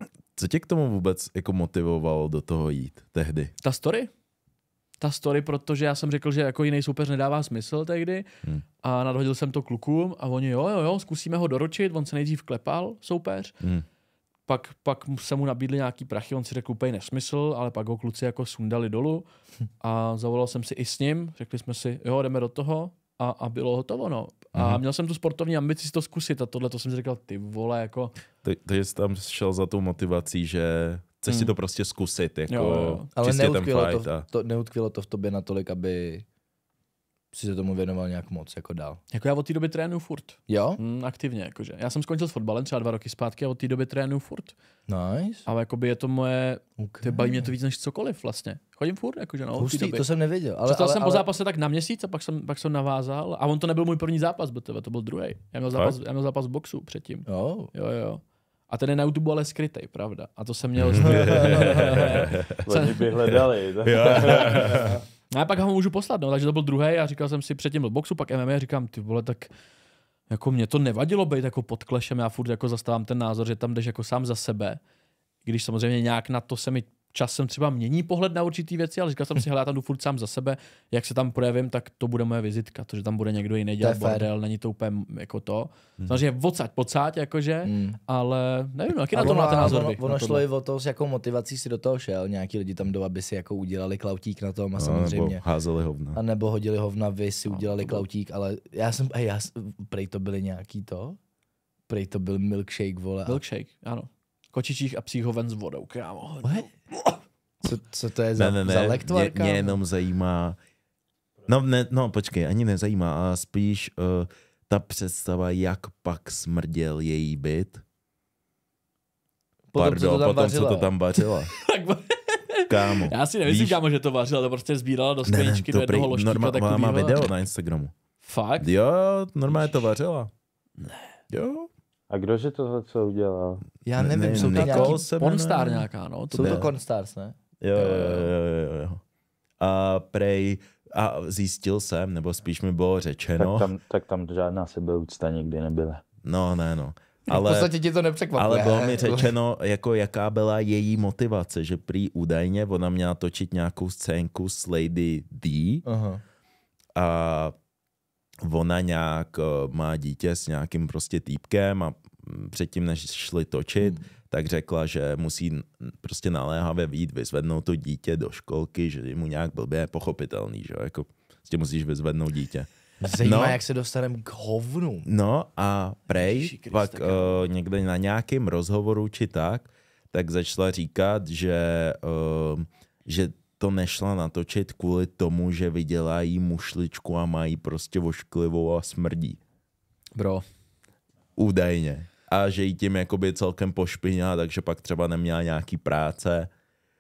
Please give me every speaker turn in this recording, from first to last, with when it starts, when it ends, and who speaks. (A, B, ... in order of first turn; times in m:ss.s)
0:00.4-0:03.5 A
0:03.6-0:04.1 B
0:05.0-0:08.3 B
0:08.8-0:13.6 B
0:14.5-0:19.3 B
0:19.8-0:28.1 B
0:24.6-0:24.8 A
0:28.4-0:34.3 A
0:31.3-0:31.5 B
0:32.5-0:33.1 B
0:33.2-0:36.2 C
0:37.3-0:39.0 C
0:39.1-0:44.5 B
0:40.5-0:40.8 C
0:44.9-0:45.5 C
0:45.5-0:50.1 B
0:46.8-0:47.5 C
0:49.6-0:51.2 C
0:50.7-1:03.1 B
0:57.3-0:57.7 C
1:00.8-1:02.6 A
1:01.0-1:01.7 C
1:02.6-1:04.8 D
1:03.8-1:05.0 A
1:04.4-1:04.8 B
1:04.8-1:05.0 C
1:05.3-1:09.5 B
1:10.3-1:14.8 B
1:15.4-1:30.4 B
1:23.8-1:24.3 C
1:27.6-1:28.0 C
1:29.1-1:35.4 C
1:29.2-1:29.8 A
1:34.8-1:36.2 A
1:36.2-1:41.2 C
1:37.5-1:38.0 B
1:41.9-1:43.4 C
1:43.3-1:47.2 B
1:47.6-1:49.8 C
1:48.4-1:50.6 A
1:51.5-1:57.8 A
1:59.7-2:00.9 C
1:59.8-2:01.5 A
2:01.5-2:07.2 B
2:02.7-2:03.8 A
2:05.3-2:07.9 A
2:08.2-2:08.7 B
2:08.6-2:10.3 A
2:09.5-2:09.8 B
2:10.8-2:11.1 B
2:11.3-2:11.7 A
2:12.1-2:13.6 D
2:13.8-2:15.0 C
2:14.0-2:15.9 A
2:14.3-2:16.7 B
2:16.3-2:18.3 C
2:16.4-2:16.7 A
2:17.6-2:19.0 A
2:19.6-2:23.7 A
2:23.4-2:26.0 D
2:26.2-2:27.7 A
2:27.3-2:29.3 C
2:28.4-2:35.9 A
2:35.9-2:36.2 C
2:37.0-2:37.5 A
2:38.4-2:53.6 A
2:53.0-2:55.1 C
2:55.1-3:09.4 A
2:56.1-2:57.4 B
3:10.2-3:10.4 B
3:11.4-3:16.5 A